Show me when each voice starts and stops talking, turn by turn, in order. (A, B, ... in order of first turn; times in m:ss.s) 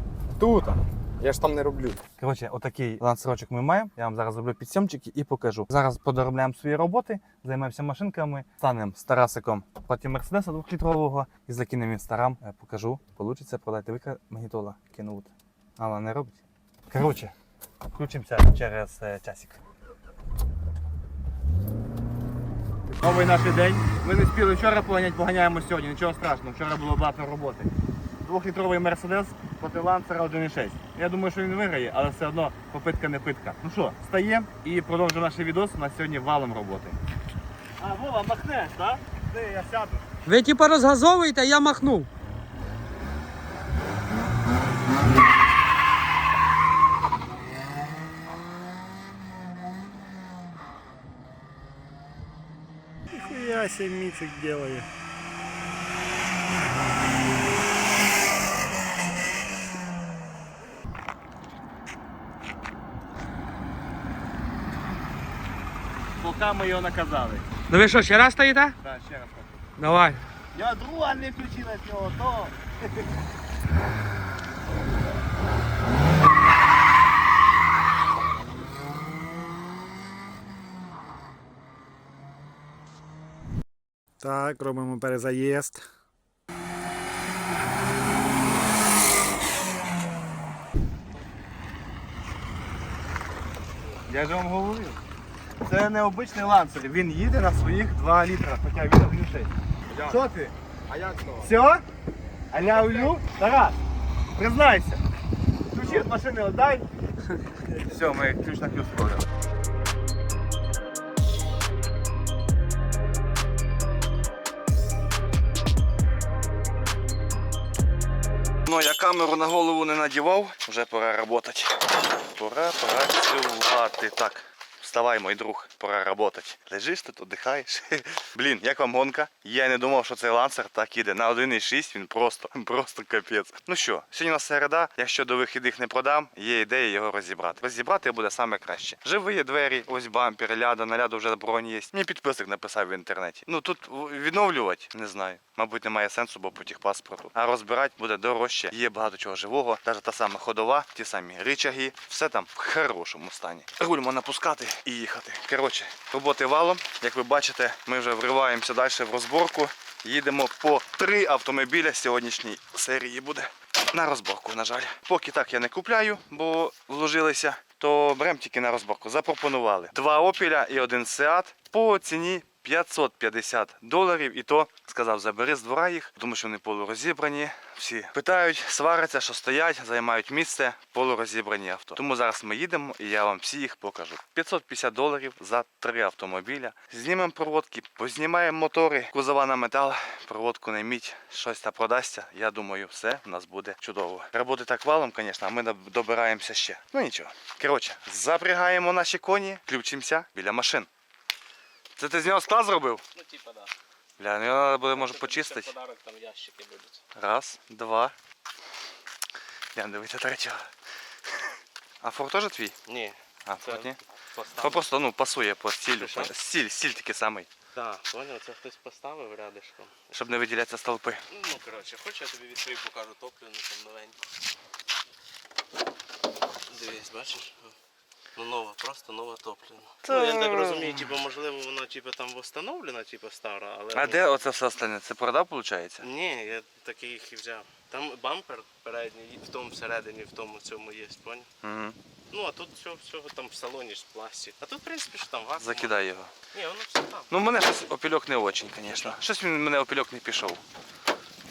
0:00.3-0:02.0 A
0:02.2-0:16.4 B
0:16.9-0:17.3 B
0:17.9-0:19.6 B
0:22.9-0:27.7 B
0:28.2-0:37.0 B
0:37.8-0:40.1 B
0:40.3-0:42.1 C
0:53.1-0:54.9 D
1:06.2-1:07.4 B
1:07.7-1:08.8 C
1:08.8-1:09.6 B
1:09.8-1:10.2 C
1:10.5-1:12.9 B
1:24.2-1:25.8 D
1:34.1-1:35.0 B
1:35.6-1:39.5 B
1:39.9-1:40.2 A
1:40.1-1:40.5 B
1:40.9-1:41.5 A
1:41.4-1:41.8 B
1:42.5-1:43.8 B
1:42.7-1:43.1 A
1:44.4-1:45.0 B
1:45.7-1:46.9 B
1:47.7-1:49.3 B
1:58.7-3:20.9 B
3:22.0-3:23.0 B
3:23.1-3:23.7 E
3:24.2-3:25.7 B
3:24.9-3:27.0 E
3:27.2-3:28.1 B
3:29.8-3:30.7 B
3:32.0-3:32.8 B
3:32.9-3:34.8 E
3:33.5-3:34.0 B
3:34.6-3:37.5 B
3:35.9-3:36.3 E
3:37.8-3:40.0 E
3:40.1-3:41.2 B
3:41.3-3:44.2 E
3:46.7-3:47.7 E
3:48.4-3:54.4 E
3:50.0-3:51.0 B
3:53.9-3:56.1 B
3:56.0-4:01.5 E
4:01.6-4:02.0 B
4:02.3-4:06.0 E
4:05.6-4:06.3 B
4:06.5-4:07.3 E
4:07.3-4:10.6 B
4:08.8-4:09.2 E